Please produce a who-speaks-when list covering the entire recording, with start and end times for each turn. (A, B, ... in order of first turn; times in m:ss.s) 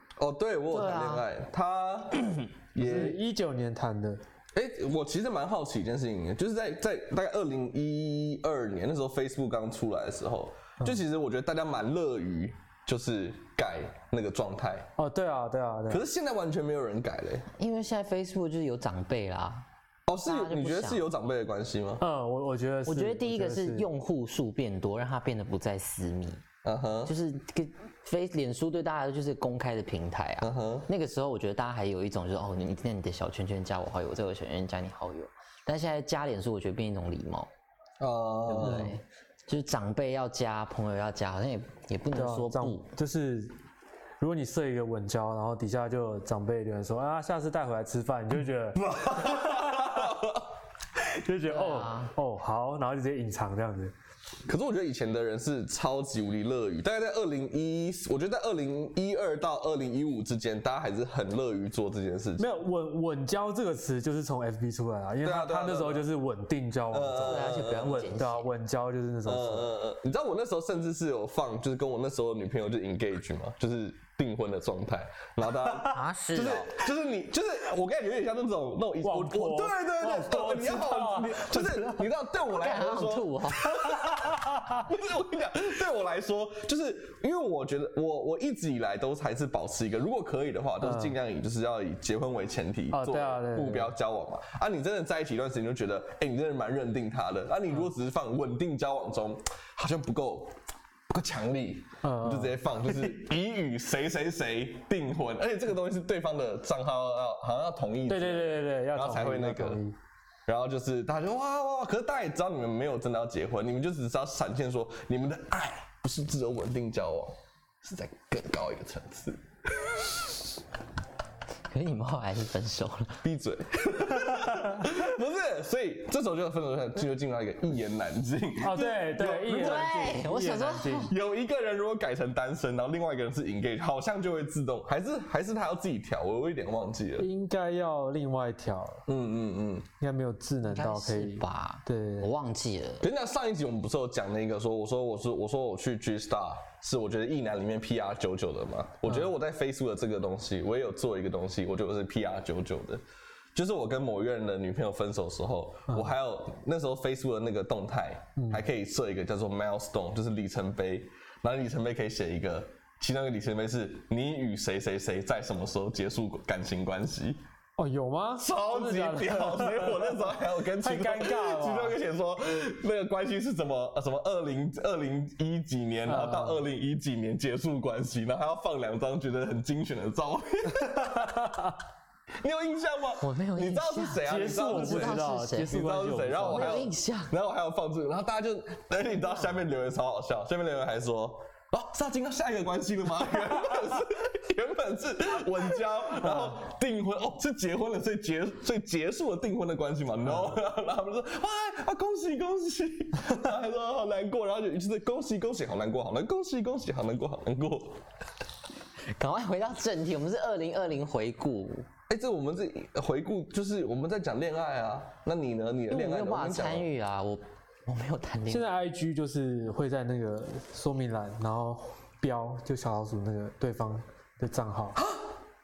0:00.2-0:03.2 A
0:00.7-0:01.2 B
0:02.8-0:04.2 C
0:04.5-0:14.9 A
0:15.0-0:16.0 C
0:15.9-0:17.5 A
0:17.5-0:19.6 B
0:20.1-0:22.0 A
0:20.2-0:21.0 B
0:22.0-0:23.9 C
0:22.8-0:26.4 B
0:26.6-0:27.1 A
0:27.0-0:37.5 B
0:30.4-0:30.9 A
0:38.0-0:39.0 A
0:38.5-0:42.9 B
0:42.1-0:43.6 C
0:44.2-0:50.2 C
0:48.9-0:50.4 A
0:51.0-0:53.9 C
0:51.5-0:52.1 B
0:54.5-1:02.5 A
1:02.4-1:09.7 C
1:05.2-1:06.0 A
1:06.9-1:08.0 A
1:07.3-1:08.5 B
1:09.2-1:40.5 A
1:15.8-1:16.8 B
1:19.0-1:22.1 C
1:22.5-1:23.7 B
1:23.9-1:24.8 C
1:30.8-1:31.2 C
1:32.9-1:33.9 C
1:41.1-1:49.8 A
1:42.0-1:43.2 C
1:48.1-1:50.0 C
1:50.5-2:00.3 A
2:01.7-2:03.2 B
2:03.2-2:10.1 A
2:08.6-2:11.1 C
2:09.4-2:11.1 B
2:11.1-2:17.3 A
2:17.2-2:19.0 C
2:19.1-2:19.9 A
2:20.0-2:22.3 C
2:20.6-2:23.0 B
2:23.0-2:33.0 A
2:29.1-2:29.3 C
2:33.5-2:47.4 A
2:38.4-2:38.6 C
2:47.8-2:52.0 C
2:48.4-3:01.5 A
2:56.0-2:56.6 C
3:01.3-3:01.6 C
3:02.4-3:28.0 A
3:03.2-3:05.7 B
3:04.2-3:06.9 C
3:06.5-3:07.3 B
3:29.1-3:31.9 B
3:32.1-3:36.8 A
3:35.9-3:38.7 B
3:38.5-3:45.0 C
3:45.0-3:45.2 A